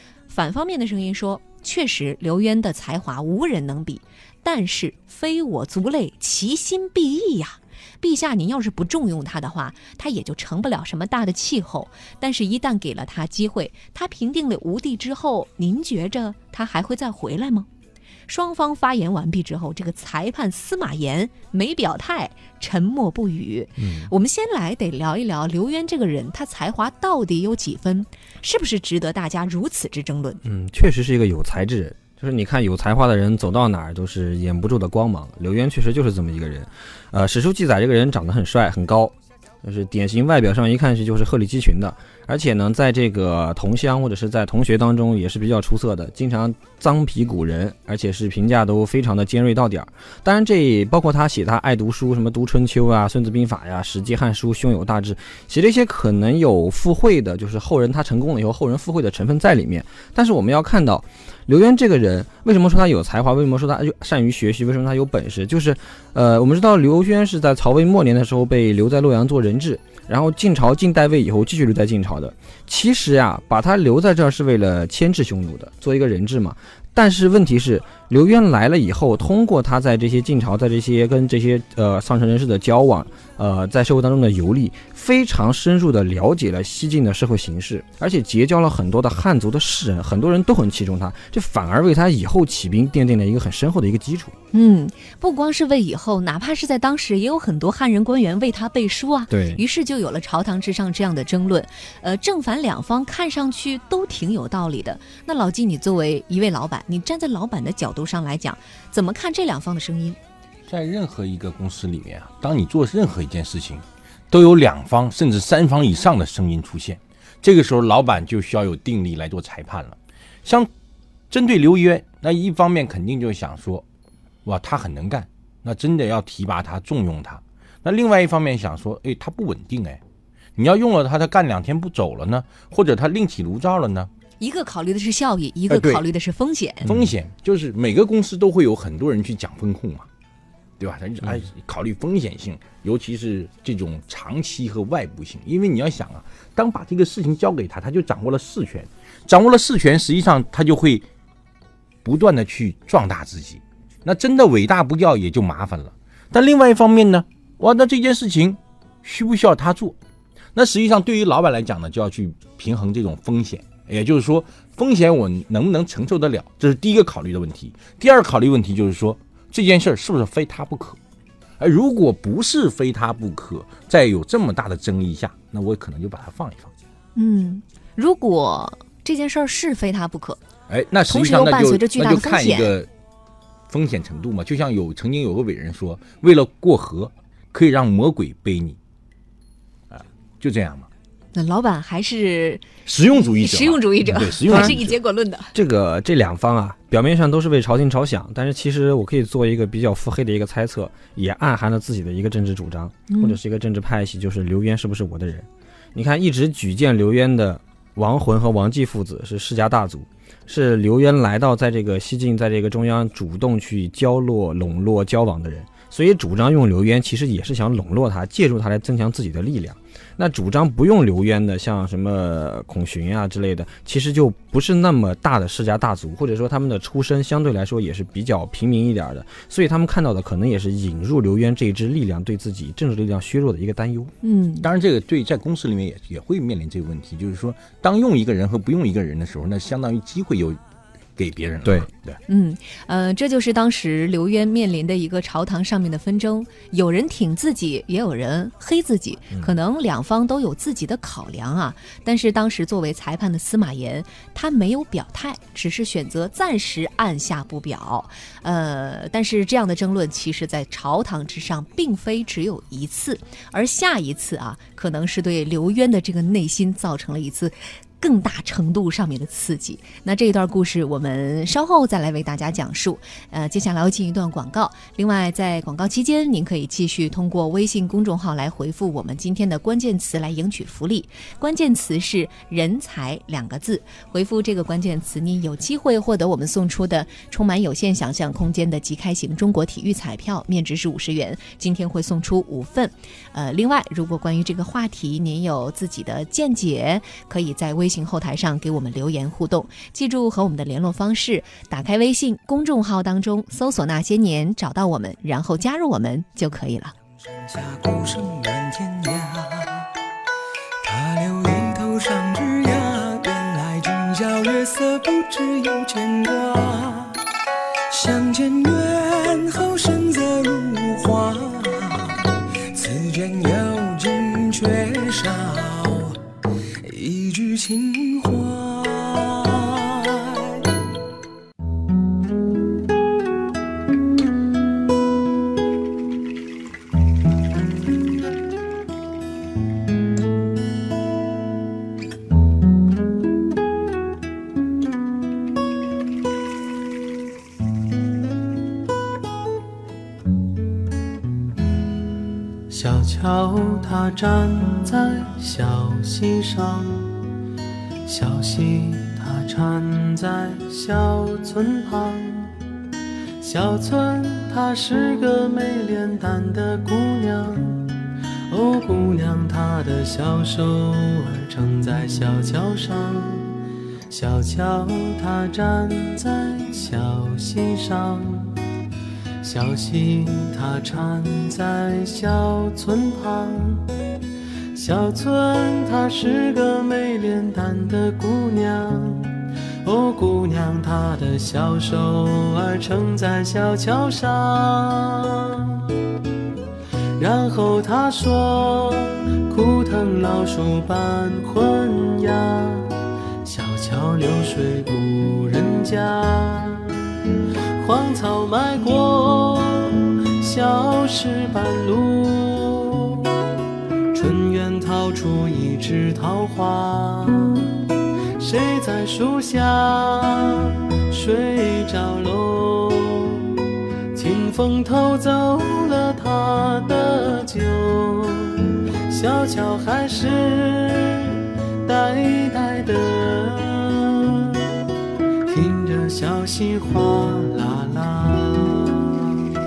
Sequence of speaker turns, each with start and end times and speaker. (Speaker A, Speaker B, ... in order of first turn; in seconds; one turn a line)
Speaker A: 0.3-17.7
Speaker A: 18.3-30.4
Speaker B: 23.8-24.1
Speaker B: 30.4-94.3
Speaker A: 94.5-110.2
Speaker B: 99.3-99.6
Speaker C: 110.7-120.7
Speaker C: 121.3-123.8
Speaker C: 124.4-130.0
Speaker C: 130.6-134.1
Speaker A: 134.4-136.9
Speaker C: 135.7-136.0
Speaker C: 136.8-140.1
Speaker C: 140.8-151.1
Speaker C: 152.0-159.9
Speaker C: 160.5-171.0
Speaker C: 171.6-176.7
Speaker A: 177.1-180.4
Speaker C: 180.7-182.9
Speaker A: 181.1-182.7
Speaker C: 183.7-188.8
Speaker C: 189.9-190.9
Speaker A: 191.3-195.5
Speaker C: 192.8-195.0
Speaker B: 194.5-194.8
Speaker B: 195.5-234.1
Speaker A: 203.1-203.3
Speaker A: 234.2-234.7
Speaker C: 234.6-240.6
Speaker C: 241.2-242.2
Speaker A: 242.3-306.9
Speaker D: 307.4-309.9
Speaker D: 310.8-317.2
Speaker D: 317.9-326.2
Speaker D: 326.8-330.6
Speaker E: 352.7-357.2
Speaker E: 358.0-362.5
Speaker E: 363.4-373.6
Speaker E: 374.1-378.6
Speaker E: 379.4-383.9
Speaker E: 384.7-396.0
Speaker E: 397.2-407.1
Speaker E: 407.8-413.4
Speaker E: 414.1-417.7
Speaker E: 418.4-434.6
Speaker E: 435.5-439.0